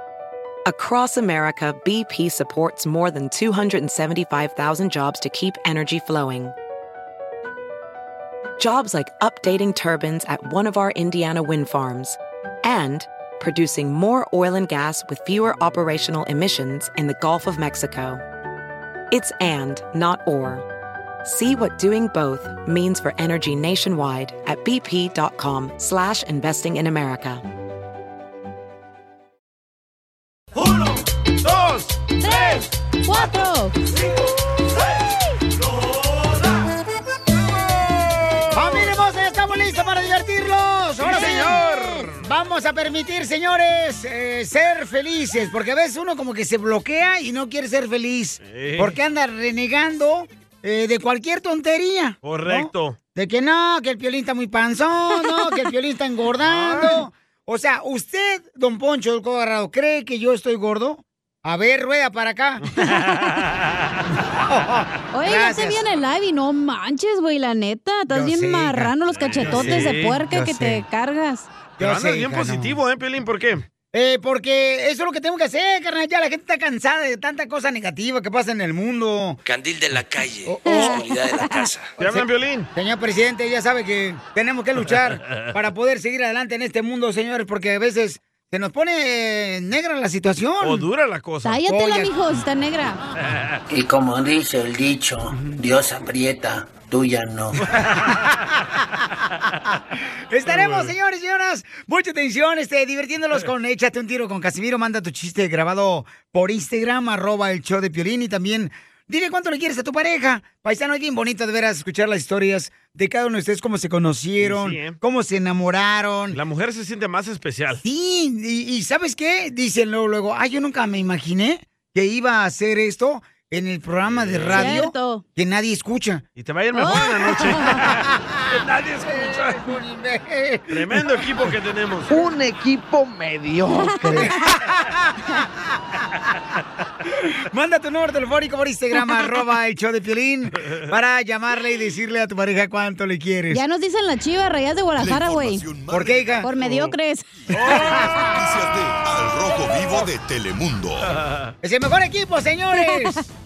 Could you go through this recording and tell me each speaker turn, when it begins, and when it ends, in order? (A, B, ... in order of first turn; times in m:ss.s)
0:00.6-0:06.5 A
0:08.6-0:18.2 A
0:19.1-0:20.6 A
0:21.2-0:27.4 A
0:30.5-0:32.6 B
0:32.2-0:33.7 C
0:35.6-0:36.5 B
0:37.7-0:38.9 B
0:38.5-0:41.6 D
0:41.0-0:42.2 B
0:42.2-1:02.8 D
0:48.4-0:49.0 B
0:52.2-0:53.0 B
0:55.2-0:55.5 C
0:56.4-0:57.0 B
1:02.9-1:04.0 B
1:04.3-1:05.8 D
1:05.1-1:11.5 C
1:08.1-1:10.8 D
1:09.3-1:10.3 B
1:11.8-1:12.8 D
1:11.8-1:13.6 B
1:13.9-1:19.4 D
1:19.4-1:21.9 E
1:20.4-1:21.0 D
1:20.6-1:21.6 C
1:22.0-1:22.7 B
1:22.0-1:30.8 D
1:30.6-1:31.6 B
1:31.4-1:33.0 C
1:31.7-1:32.1 D
1:33.7-1:37.6 F
1:37.8-1:38.1 B
1:40.3-1:56.4 D
1:40.4-1:40.9 B
1:54.4-1:55.0 B
1:56.3-1:57.8 B
1:57.8-2:06.2 D
2:04.1-2:04.8 B
2:04.5-2:05.2 C
2:06.4-2:09.6 B
2:06.7-2:07.8 C
2:07.7-2:11.0 D
2:10.7-2:12.2 B
2:12.1-2:14.3 G
2:13.8-2:14.2 C
2:14.1-2:16.0 D
2:17.4-2:23.6 D
2:23.5-2:25.6 C
2:25.0-2:26.4 H
2:25.9-2:26.5 D
2:26.4-2:27.2 C
2:27.5-2:28.1 B
2:27.5-2:28.4 D
2:28.0-2:31.0 H
2:31.2-2:31.5 B
2:31.6-2:33.3 D
2:32.8-2:33.2 C